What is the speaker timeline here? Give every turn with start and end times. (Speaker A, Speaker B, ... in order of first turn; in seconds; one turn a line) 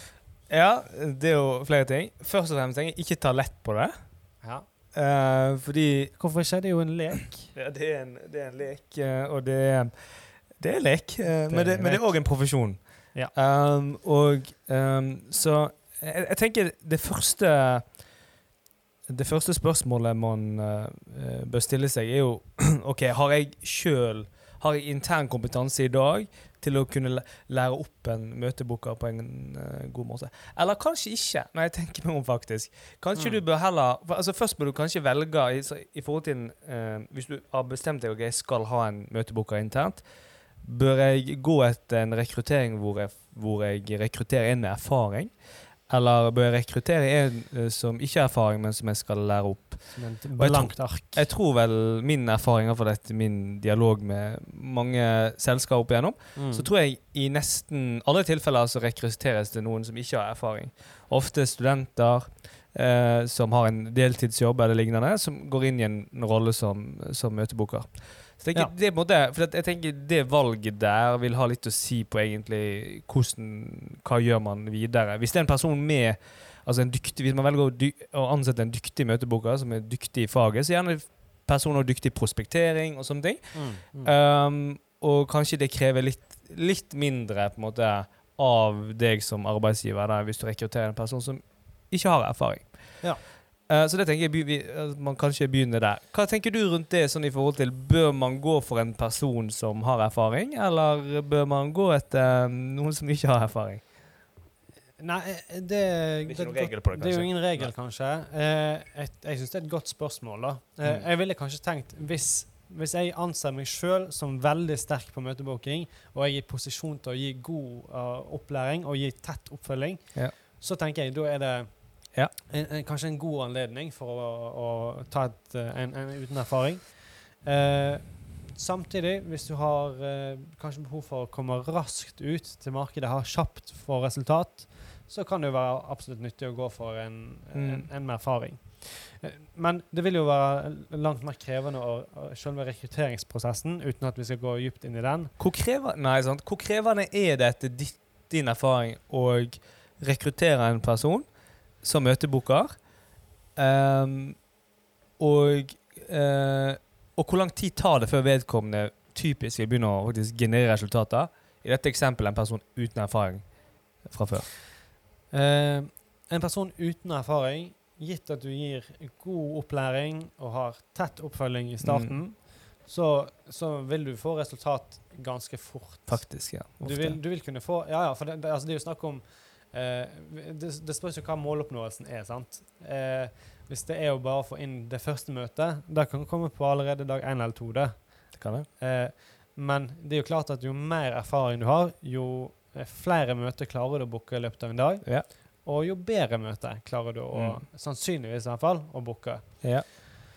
Speaker A: 0.5-4.2
Speaker B: 4.4-4.7
Speaker A: 4.9-6.2
Speaker B: 6.1-7.5
Speaker A: 7.5-18.1
Speaker B: 11.4-12.6
Speaker A: 19.1-103.9
Speaker B: 33.1-33.4
Speaker B: 49.9-51.3
Speaker B: 56.3-56.7
Speaker B: 83.5-84.1
Speaker B: 105.0-145.3
Speaker A: 106.2-107.7
Speaker A: 137.5-137.9
Speaker A: 145.4-154.5
Speaker A: 155.2-164.5
Speaker B: 165.3-200.2
Speaker A: 171.8-172.2
Speaker A: 176.1-177.2
Speaker A: 188.3-188.7
Speaker A: 195.0-195.3
Speaker A: 197.3-197.6
Speaker A: 199.6-199.8